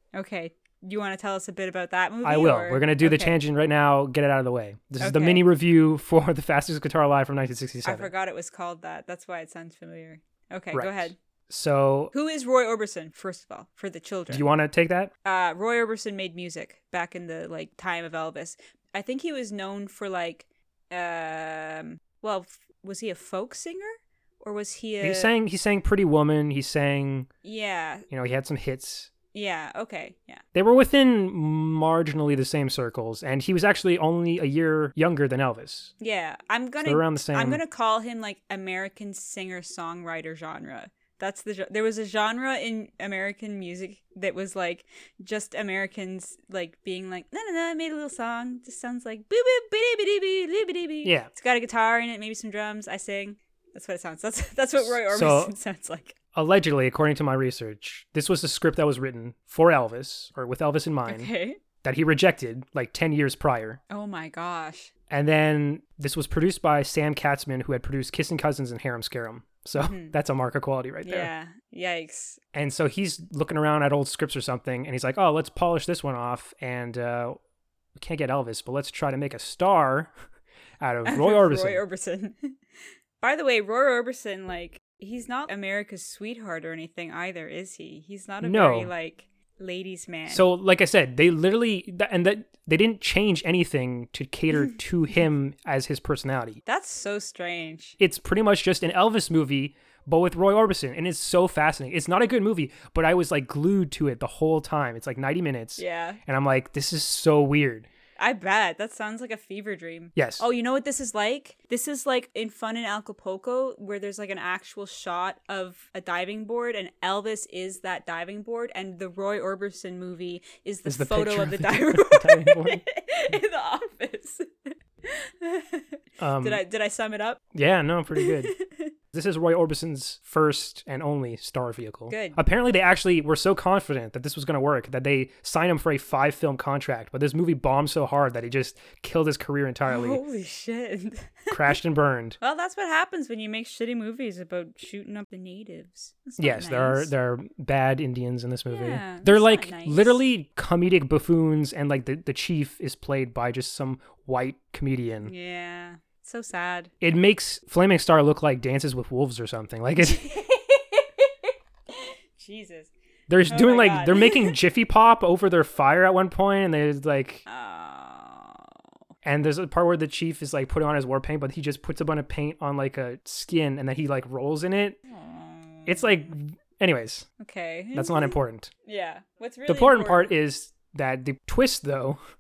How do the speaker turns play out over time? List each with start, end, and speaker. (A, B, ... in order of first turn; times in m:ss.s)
0:00.1-0:03.4 A
0:02.2-0:08.1 B
0:05.0-0:05.4 A
0:07.8-0:11.2 A
0:10.7-0:12.1 B
0:12.1-0:14.5 A
0:14.3-0:15.1 B
0:15.2-0:25.3 A
0:25.0-0:27.3 B
0:27.4-0:28.1 A
0:28.1-0:29.1 B
0:29.3-0:30.4 A
0:30.6-0:35.9 B
0:36.0-0:56.2 A
0:36.8-0:37.6 B
0:51.0-0:51.3 B
0:54.8-0:55.6 B
0:56.3-1:01.3 B
1:01.1-1:01.6 A
1:01.8-1:03.8 B
1:03.9-1:04.9 A
1:05.1-1:11.3 B
1:09.8-1:10.2 A
1:11.0-1:12.4 A
1:12.5-1:17.4 B
1:18.0-1:20.1 B
1:20.8-1:21.8 B
1:21.0-1:22.6 A
1:23.2-1:30.5 A
1:28.4-1:28.9 B
1:30.3-1:36.6 B
1:36.7-1:38.0 A
1:38.0-1:47.9 B
1:45.8-1:46.2 A
1:48.2-2:07.4 A
1:50.2-1:50.4 B
2:00.9-2:02.8 B
2:06.2-2:06.6 B
2:07.5-2:08.5 B
2:08.2-2:08.9 A
2:09.1-2:20.2 B
2:12.1-2:12.4 A
2:19.9-2:21.8 A
2:21.5-2:22.4 B
2:22.4-2:27.1 A
2:26.4-2:35.3 B
2:28.7-2:30.2 A
2:35.2-2:36.9 A
2:37.0-2:40.3 B
2:40.1-2:42.9 A
2:43.3-2:47.4 B
2:43.5-2:44.5 A
2:47.5-2:48.7 A
2:49.2-2:55.0 B
2:55.1-2:56.3 A
2:55.9-2:57.3 B
2:57.4-3:00.4 A
2:57.9-2:58.7 B
2:59.7-3:02.2 B